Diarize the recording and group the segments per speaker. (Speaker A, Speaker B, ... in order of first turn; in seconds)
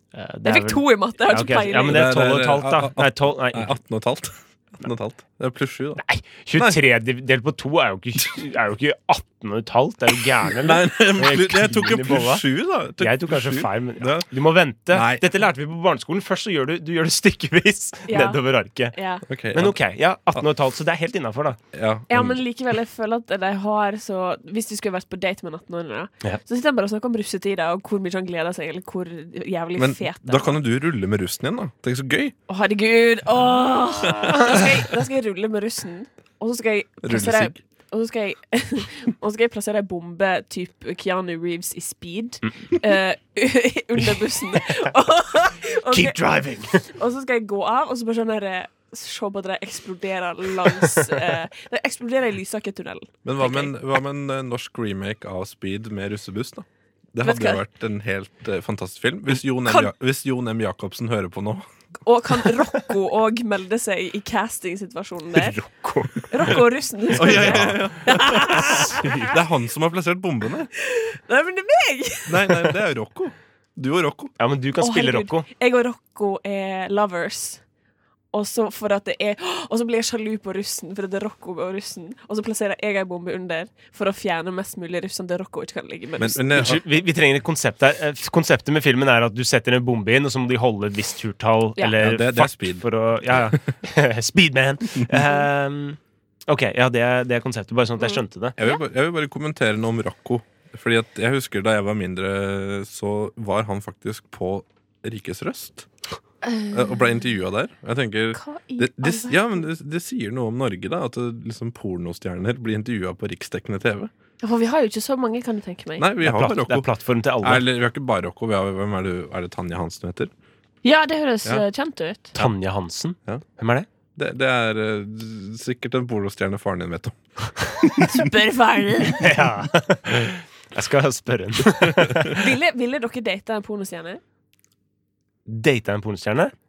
Speaker A: 0.1-3.7, 6.0-12.4, 13.0-18.9, 19.5-21.6, 34.3-34.7, 45.9-46.8, 65.3-66.5, 67.1-67.8, 74.4-75.5, 86.5-98.5, 116.2-117.7, 122.4-123.9, 129.2-132.4, 135.5-136.5
Speaker B: 0.5-2.1, 18.1-19.2, 22.1-30.6, 32.5-46.2, 46.8-53.7, 57.2-57.6, 59.6-59.9, 62.0-65.6, 66.3-69.4, 70.8-72.8, 74.8-77.6, 78.3-86.5, 95.1-95.4, 98.0-98.8, 106.4-107.0, 108.3-109.7, 114.4-116.1, 120.8-122.4, 128.0-129.3, 132.3-134.2
Speaker C: 1.9-6.0, 6.5-6.8, 10.5-14.3, 14.9-15.2, 19.3-19.8, 21.7-22.4, 29.8-32.4, 34.1-34.5, 37.0-37.6, 53.2-61.6, 67.2-70.7, 72.3-74.3, 86.2-86.8, 92.0-93.6, 98.6-105.9, 106.7-114.1, 116.0-116.9, 117.4-120.3, 124.2-127.2, 127.8-128.3